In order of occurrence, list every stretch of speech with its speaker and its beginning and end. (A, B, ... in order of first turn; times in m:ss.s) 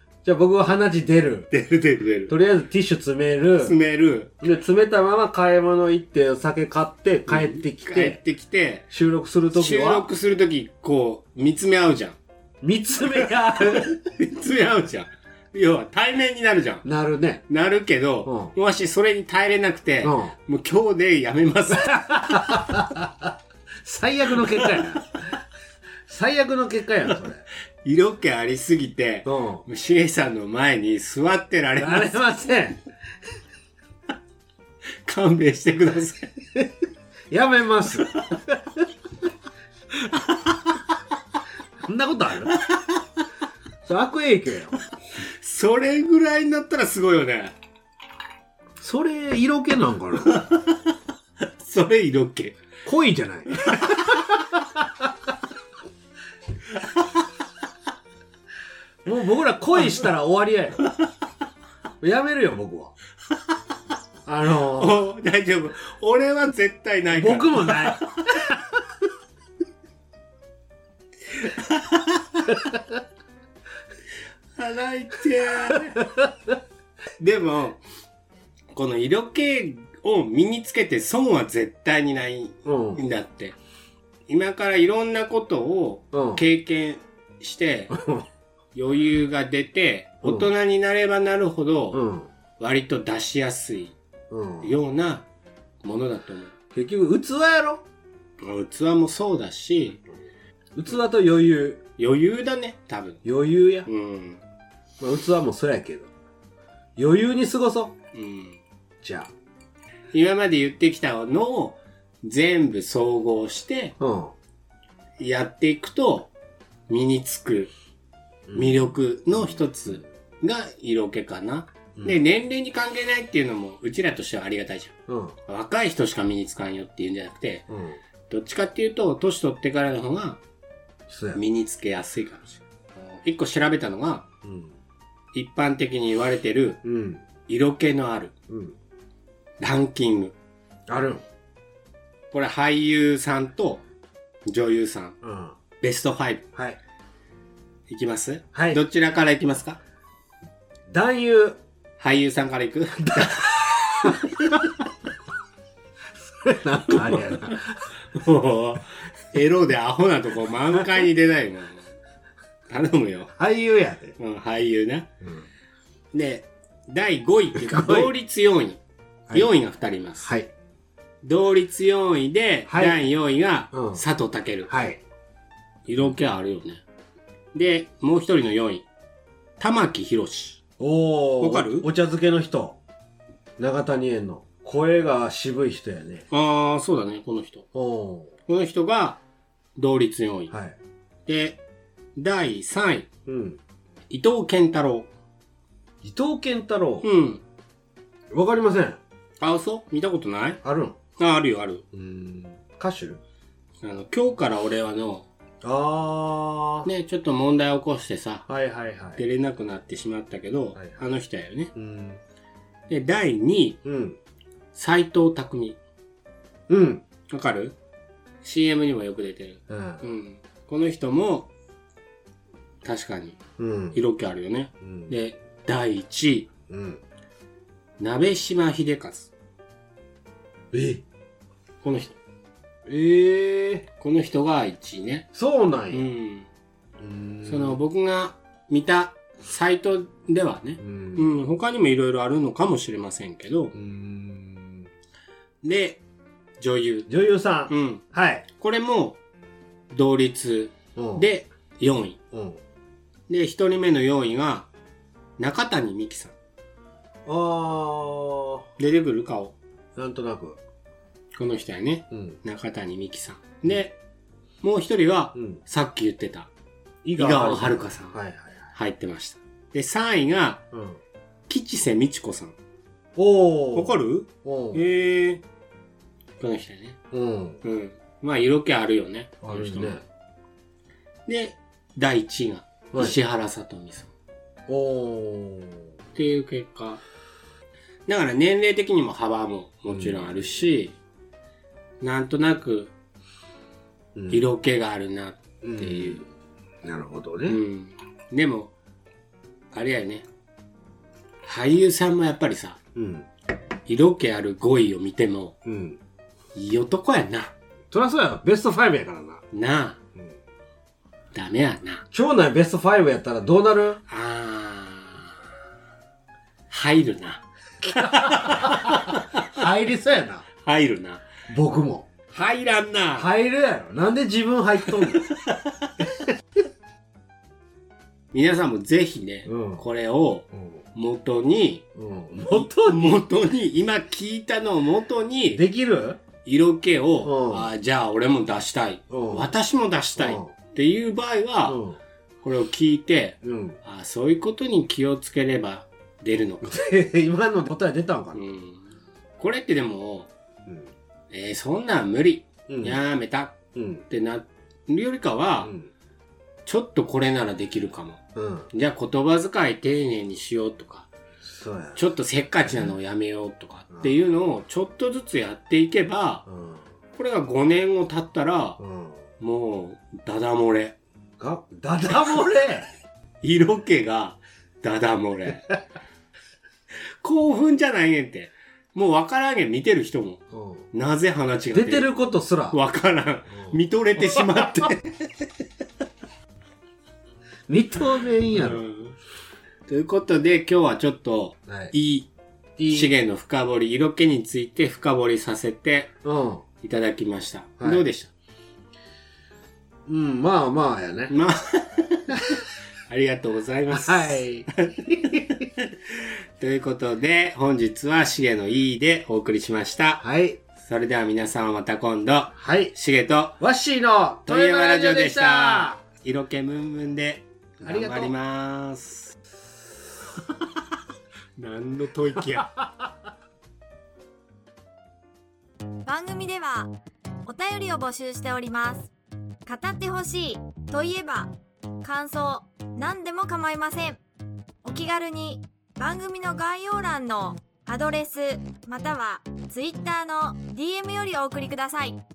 0:00.2-0:01.5 A
0:01.5-0:02.4 B
0:02.3-0:03.8 A
0:03.6-0:04.4 B
0:04.4-0:08.2 A
0:07.3-0:08.9 B
0:08.9-0:10.1 A
0:09.5-0:12.2 B
0:12.6-0:13.9 A
0:13.2-0:16.8 B
0:16.8-0:17.4 A
0:17.5-0:22.8 B
0:18.2-0:18.5 A
0:20.0-0:20.3 A
0:21.8-0:25.4 A
0:26.1-0:27.4 A
0:27.8-0:32.2 B
0:29.2-0:29.6 A
0:31.8-0:32.8 A
0:35.0-0:36.3 B
0:37.3-0:38.6 A
0:41.8-0:42.5 A
0:42.5-0:43.0 B
0:43.8-0:44.8 A
0:45.2-0:47.6 B
0:48.8-0:50.4 A
0:50.3-0:50.8 B
0:51.6-0:52.6 B
0:52.8-0:54.8 A
0:53.7-0:54.0 B
0:56.8-0:57.0 B
0:59.0-1:00.8 A
1:02.0-1:02.9 A
1:04.3-1:05.0 A
1:04.8-1:08.5 B
1:07.1-1:08.0 A
1:11.4-1:12.5 B
1:14.6-1:16.0 B
1:17.2-1:17.8 B
1:18.7-1:23.6 B
1:22.7-1:23.0 A
1:24.3-1:28.0 B
1:26.1-1:26.4 A
1:27.9-1:28.2 A
1:28.7-1:32.0 B
1:30.2-1:30.5 A
1:31.9-1:32.3 A
1:32.6-1:34.0 B
1:34.3-1:34.7 A
1:34.6-1:35.2 B
1:35.8-1:36.5 B
1:36.7-1:37.8 A
1:38.4-1:40.0 B
1:40.8-1:41.8 A
1:42.0-1:43.2 B
1:43.2-1:43.9 A
1:43.8-1:44.4 B
1:45.0-1:46.1 A
1:47.0-1:47.9 A
1:48.1-1:48.6 B
1:49.0-1:49.3 A
1:50.1-1:54.0 B
1:54.0-1:54.3 A
1:55.2-1:56.3 B
1:56.9-1:57.7 B
1:58.5-1:58.9 A
1:58.5-2:04.9 B
2:05.1-2:05.4 A
2:05.5-2:07.7 B
2:07.7-2:08.0 A
2:08.3-2:10.4 B
2:11.1-2:11.4 A
2:11.3-2:14.3 B
2:14.4-2:14.8 A
2:15.3-2:16.8 B
2:16.8-2:17.2 A
2:17.5-2:18.3 B
2:18.5-2:18.8 A
2:19.6-2:20.3 B
2:20.9-2:21.2 A
2:22.3-2:23.8 B
2:24.5-2:25.2 B
2:25.2-2:25.6 A
2:25.8-2:26.5 B
2:27.9-2:29.8 B
2:28.5-2:28.8 A
2:30.9-2:31.6 A
2:32.0-2:34.6 B
2:33.1-2:34.2 A
2:36.2-2:37.8 A
2:36.9-2:41.9 B
2:42.7-2:43.3 B
2:43.4-2:44.2 A
2:44.2-2:45.1 B
2:46.1-2:50.4 B
2:47.6-2:48.1 A
2:50.2-2:50.5 A
2:51.2-2:54.8 B
2:52.7-2:53.0 A
2:53.7-2:54.0 A
2:54.7-2:55.0 A
2:55.9-2:56.8 B
2:57.5-2:58.9 B
2:59.6-3:00.6 B
3:00.8-3:02.8 A
3:01.4-3:01.9 B
3:03.6-3:06.2 A
3:06.3-3:07.7 B
3:07.7-3:08.3 A
3:08.5-3:09.2 B
3:09.8-3:10.5 B
3:10.5-3:10.8 A
3:11.3-3:11.6 B
3:12.2-3:13.1 B
3:13.3-3:13.6 A
3:14.1-3:15.1 B
3:16.0-3:17.1 A
3:17.0-3:17.4 B
3:18.3-3:19.0 A
3:19.4-3:20.6 B
3:20.6-3:21.0 A
3:21.2-3:21.8 B
3:21.9-3:23.2 A
3:23.8-3:25.3 B
3:25.6-3:26.9 A
3:26.8-3:28.5 B
3:28.5-3:29.2 A
3:29.2-3:31.7 B
3:31.8-3:32.2 A
3:32.9-3:33.8 B
3:33.8-3:34.2 A
3:34.7-3:35.8 B
3:36.7-3:37.0 A
3:37.3-3:37.8 B
3:38.4-3:41.5 B
3:39.7-3:40.0 A
3:42.8-3:43.4 B
3:43.6-3:44.0 A
3:43.9-3:46.5 B
3:44.8-3:45.1 A
3:46.7-3:47.0 A
3:48.0-3:49.3 B
3:50.7-3:51.0 A
3:51.8-3:52.2 B
3:52.9-3:53.9 A
3:54.0-3:55.3 B
3:55.3-3:56.0 A
3:55.9-3:56.5 B
3:57.0-3:57.8 A
3:57.5-4:03.7 B
4:00.8-4:01.3 A
4:03.7-4:04.9 A
4:05.6-4:06.0 B
4:06.6-4:07.1 B
4:07.1-4:08.4 A
4:07.7-4:08.0 B
4:08.5-4:09.2 B
4:09.9-4:12.2 B
4:11.0-4:11.3 A
4:12.3-4:12.6 A
4:13.3-4:14.7 B
4:15.4-4:16.3 B
4:17.3-4:18.6 A
4:18.8-4:19.6 B
4:20.0-4:20.6 A
4:21.4-4:24.0 B
4:22.1-4:22.4 A
4:24.6-4:26.5 B
4:25.4-4:25.6 A
4:27.0-4:28.7 A
4:27.2-4:28.2 B
4:28.7-4:30.6 B
4:30.7-4:31.0 A
4:31.5-4:32.6 B
4:33.2-4:34.8 A
4:33.7-4:35.4 B
4:36.4-4:37.0 B
4:37.1-4:37.6 A
4:37.6-4:40.0 B
4:39.4-4:40.0 A
4:41.3-4:44.1 B
4:42.9-4:43.2 A
4:44.7-4:45.9 A
4:46.2-4:47.0 B
4:48.1-4:51.0 B
4:49.9-4:50.1 A
4:52.0-4:52.9 B
4:54.2-4:54.4 A
4:54.3-4:56.3 B
4:55.6-4:56.2 A
4:56.8-4:57.6 A
4:57.5-4:58.7 B
4:59.7-5:00.3 B
5:01.4-5:02.8 B
5:03.0-5:03.3 A
5:03.9-5:05.6 B
5:05.6-5:06.0 A
5:06.6-5:07.5 B
5:07.9-5:09.4 A
5:09.5-5:10.0 B
5:11.3-5:12.0 B
5:12.1-5:14.0 A
5:14.1-5:15.4 B
5:16.7-5:19.4 B
5:17.8-5:20.5 A
5:20.6-5:21.2 B
5:21.5-5:22.1 A
5:22.3-5:23.3 B
5:23.2-5:25.3 A
5:25.1-5:25.9 B
5:28.3-5:31.8 B
5:29.5-5:29.8 A
5:30.5-5:30.8 A
5:32.0-5:33.2 A
5:32.5-5:35.6 B
5:35.5-5:36.2 A
5:36.4-5:41.8 B
5:37.2-5:37.7 A
5:39.1-5:39.5 A
5:40.2-5:40.5 A
5:41.7-5:42.0 A
5:42.4-5:46.8 B
5:43.4-5:43.8 A
5:46.6-5:48.4 A
5:48.4-5:48.8 B
5:49.4-5:50.3 B
5:51.3-5:55.7 B
5:52.7-5:53.0 A
5:53.8-5:54.0 A
5:55.6-5:55.9 A
5:56.7-6:01.1 B
5:58.4-5:58.7 A
6:01.4-6:02.0 A
6:02.0-6:06.5 B
6:06.5-6:06.8 A
6:07.2-6:08.8 B
6:08.8-6:09.2 A
6:09.4-6:11.0 B
6:11.4-6:12.9 A
6:13.4-6:15.8 B
6:17.2-6:22.1 B
6:20.5-6:20.8 A
6:21.7-6:22.8 A
6:22.7-6:25.5 B
6:23.5-6:23.8 A
6:27.7-6:28.8 A
6:28.5-6:29.2 B
6:29.9-6:32.3 B
6:31.7-6:31.9 A
6:32.8-6:33.1 A
6:32.9-6:36.1 B
6:36.2-6:36.6 A
6:36.8-6:38.3 B
6:40.1-6:41.3 A
6:41.3-6:50.2 B
6:43.9-6:45.4 A
6:50.2-6:50.6 A
6:50.8-6:53.6 B
6:52.6-6:52.9 A
6:53.6-6:56.0 A
6:54.4-6:59.4 B
6:57.8-6:58.3 A
7:01.6-7:02.8 B
7:06.0-7:06.9 C
7:07.4-7:09.1 C
7:09.7-7:11.5 C
7:12.0-7:14.2 C
7:14.8-7:22.2 C